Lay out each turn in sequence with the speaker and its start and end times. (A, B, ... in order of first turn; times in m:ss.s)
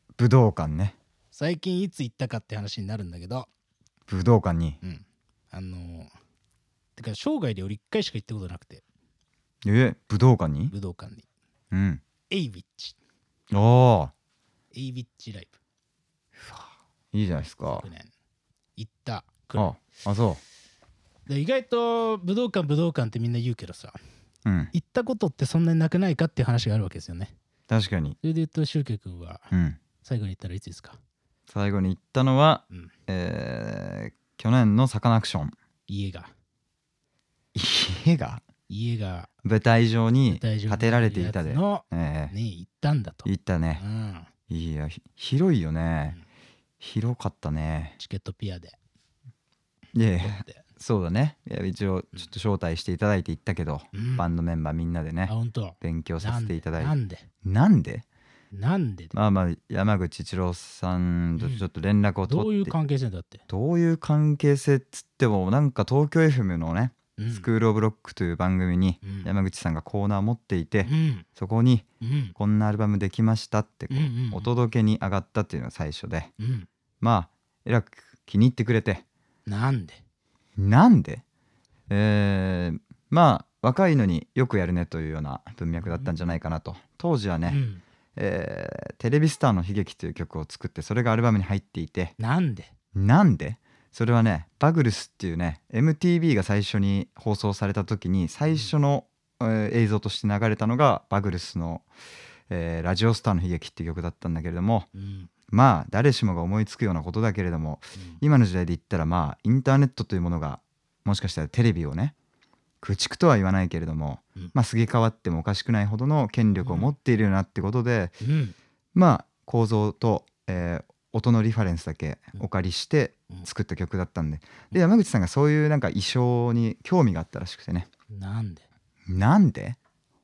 0:00.2-0:01.0 A
0:01.3-0:03.5 B
0:04.1-0:04.8 A
0:04.8-0:06.1 B
0:07.0-0:08.8 B
0:09.6-0:10.7 A
0:10.7-0:11.3 B
0:11.7-0:12.0 A
0:12.3-0:13.0 B
0:13.5-0:14.1 A
0:14.7-0:15.6 B
0:16.4-0:17.9 A
0:17.6-0:18.1 B
0:18.8-0:19.8 B
0:19.6-0:20.4 A
0:21.3-0:24.0 B
0:24.4-0:24.7 A
0:24.7-0:27.3 B
0:27.7-0:28.2 A
0:28.2-0:29.5 B
0:29.5-0:29.8 A
0:30.0-0:31.0 B
0:31.5-0:35.5 A
0:35.9-0:36.3 B
0:37.5-0:38.4 A
0:38.7-0:39.3 B
0:39.4-0:42.3 A
0:40.3-0:44.3 B
0:43.3-0:43.8 A
0:44.5-0:46.2 A
0:46.8-0:48.0 A
0:48.0-0:48.8 B
0:49.9-0:58.0 A
0:50.2-0:50.7 B
0:53.9-0:54.3 B
0:55.3-0:57.3 B
0:58.5-0:59.2 B
0:59.1-1:02.7 A
1:01.4-1:01.6 B
1:02.3-1:03.4 B
1:03.5-1:11.8 A
1:07.2-1:07.5 B
1:09.0-1:09.3 B
1:10.8-1:11.2 B
1:12.0-1:12.4 B
1:12.4-1:16.3 A
1:13.9-1:14.5 B
1:16.4-1:16.7 B
1:17.0-1:19.0 A
1:19.4-1:20.0 B
1:20.6-1:21.2 A
1:21.9-1:27.6 A
1:25.8-1:26.1 B
1:27.5-1:27.8 B
1:28.2-1:32.1 A
1:32.2-1:32.7 B
1:32.9-1:41.9 A
1:42.5-1:44.9 A
1:44.9-1:45.3 B
1:45.5-1:52.1 A
1:48.0-1:48.2 B
1:52.8-1:58.2 A
1:56.6-1:56.9 B
1:58.2-1:58.6 B
1:58.9-2:07.9 A
2:08.1-2:08.7 B
2:09.1-2:09.8 A